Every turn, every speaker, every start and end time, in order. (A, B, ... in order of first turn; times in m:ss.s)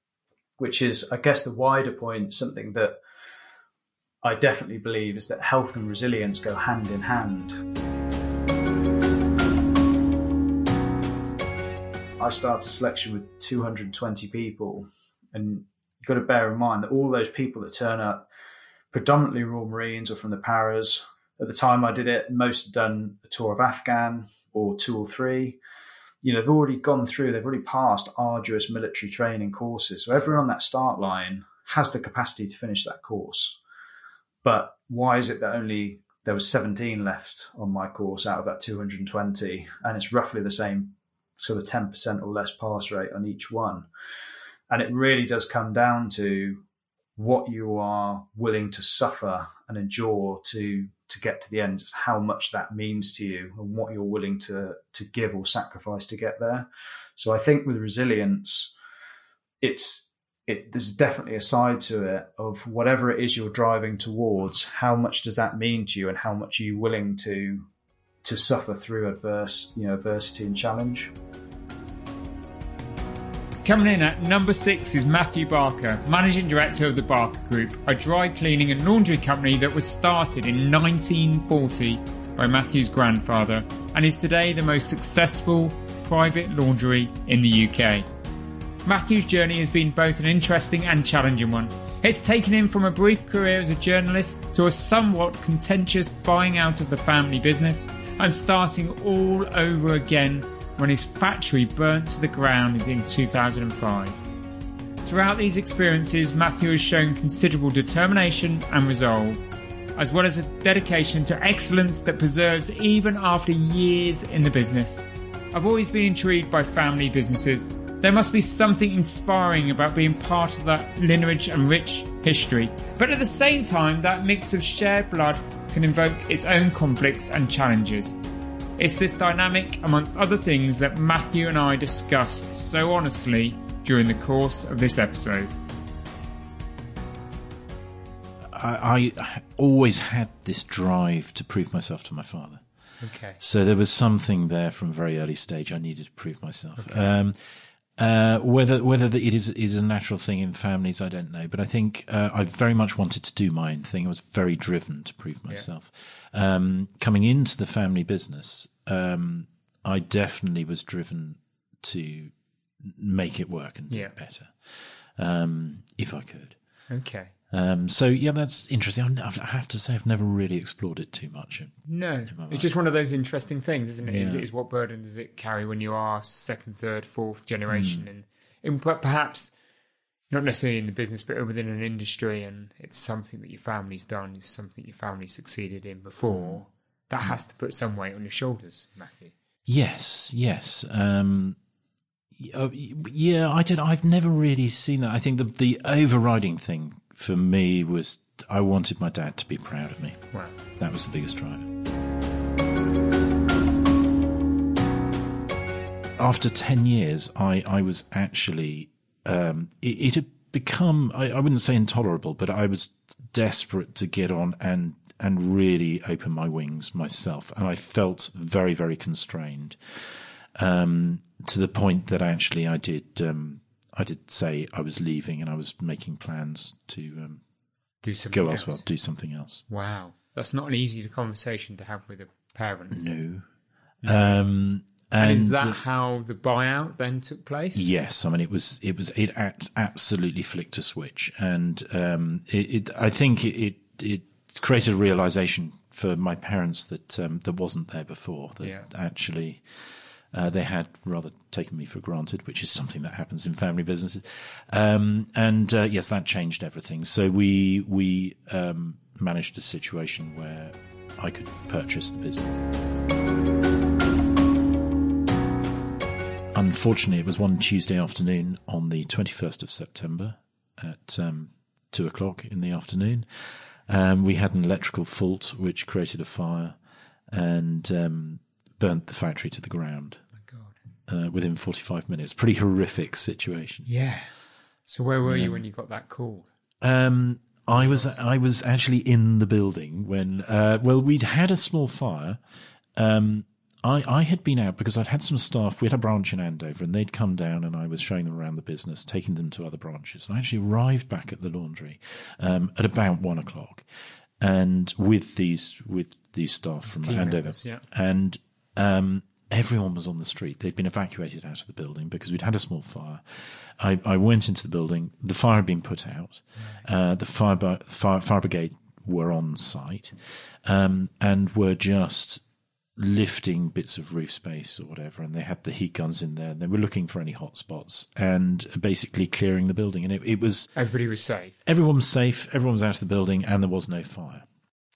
0:00.6-0:03.0 A
0:04.2-0:07.6 A
0:12.2-0:18.3 A
0:18.9-0:25.6 A
0:26.2-0:33.6 A
0:34.4-0:43.9 A
0:44.7-0:46.6 A
0:47.2-0:58.7 A
0:59.6-1:07.7 A
1:08.2-1:11.1 A
1:13.6-1:28.1 B
1:28.8-1:44.2 B
1:45.0-1:49.4 B
1:50.0-2:08.2 B
2:08.8-2:15.5 B
2:18.5-2:22.7 C
2:23.0-2:23.4 B
2:23.4-2:27.4 C
2:28.0-2:42.3 C
2:42.9-2:46.6 C
2:46.9-2:47.3 B
2:47.5-2:52.7 C
2:51.9-2:59.6 B
2:54.0-2:54.4 C
2:57.7-2:58.1 C
3:00.3-3:09.4 B
3:06.2-3:06.6 C
3:09.6-3:11.6 C
3:12.4-3:21.7 C
3:26.2-3:47.4 C
3:48.0-3:48.9 B
3:48.3-3:49.6 C
3:49.7-3:53.1 B
3:52.9-3:53.5 C
3:54.0-3:54.4 B
3:54.0-3:55.8 C
3:55.2-3:57.9 B
3:57.7-4:09.6 C
4:10.3-4:22.6 C
4:26.5-4:33.3 C
4:33.9-4:36.8 C
4:37.3-4:40.2 C
4:40.3-4:40.8 B
4:41.1-4:43.9 C
4:43.9-4:44.3 B
4:44.9-4:46.5 B
4:45.2-4:45.7 C
4:46.8-4:52.4 C
4:47.7-4:48.2 B
4:53.0-5:03.9 C
5:04.4-5:22.4 C
5:06.8-5:07.8 B
5:23.0-5:30.7 C
5:30.7-5:31.6 B
5:31.6-5:34.4 C